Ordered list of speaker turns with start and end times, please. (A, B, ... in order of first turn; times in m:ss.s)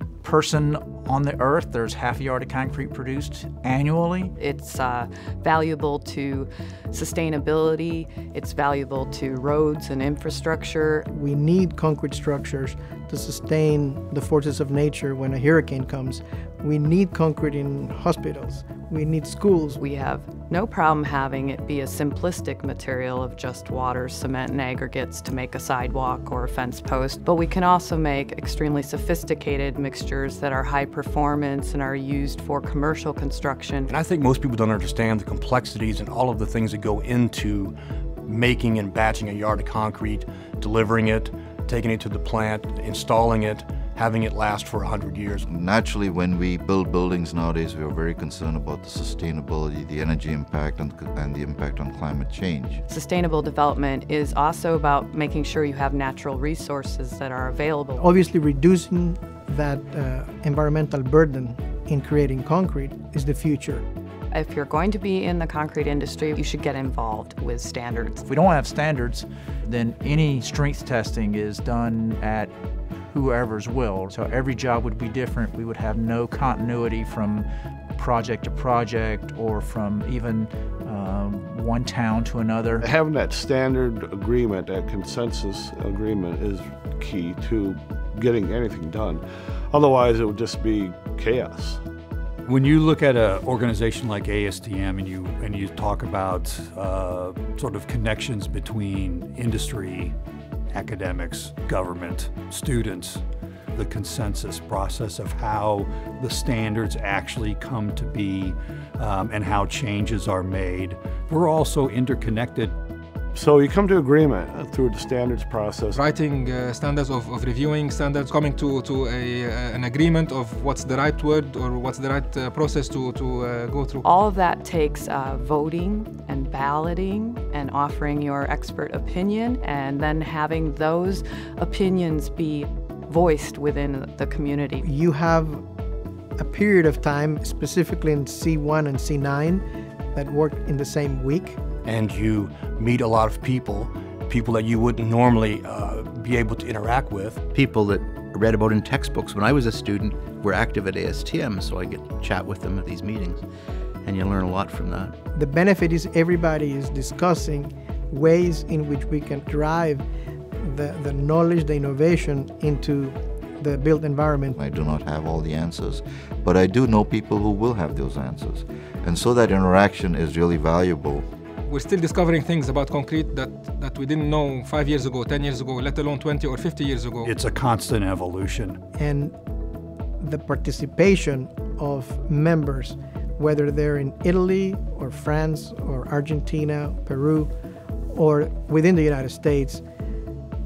0:00.2-0:04.3 A
0:04.4-0:11.1 B
0:11.1-0:19.8 C
0:19.8-0:33.9 B
0:33.9-0:37.7 D
0:38.3-0:45.4 D
0:45.5-0:52.8 E
0:52.9-0:58.0 B
0:58.0-1:03.8 C
1:04.3-1:08.2 B
1:08.2-1:12.5 A
1:13.1-1:22.8 A
1:22.8-1:31.8 F
1:32.4-1:40.1 G
1:40.7-1:52.7 G
1:53.3-1:56.0 F
1:55.9-2:04.0 H
2:04.0-2:14.9 B
2:14.8-2:15.6 C
2:16.4-2:21.6 C
2:21.8-2:27.4 D
2:27.5-2:33.4 I
2:34.0-2:35.1 I
2:35.3-2:40.0 C
2:40.6-2:44.6 C
2:44.6-2:51.2 E
2:51.7-2:57.3 H
2:57.2-2:58.8 G
2:59.0-2:59.3 C
3:00.2-3:07.5 C
3:08.1-3:09.8 C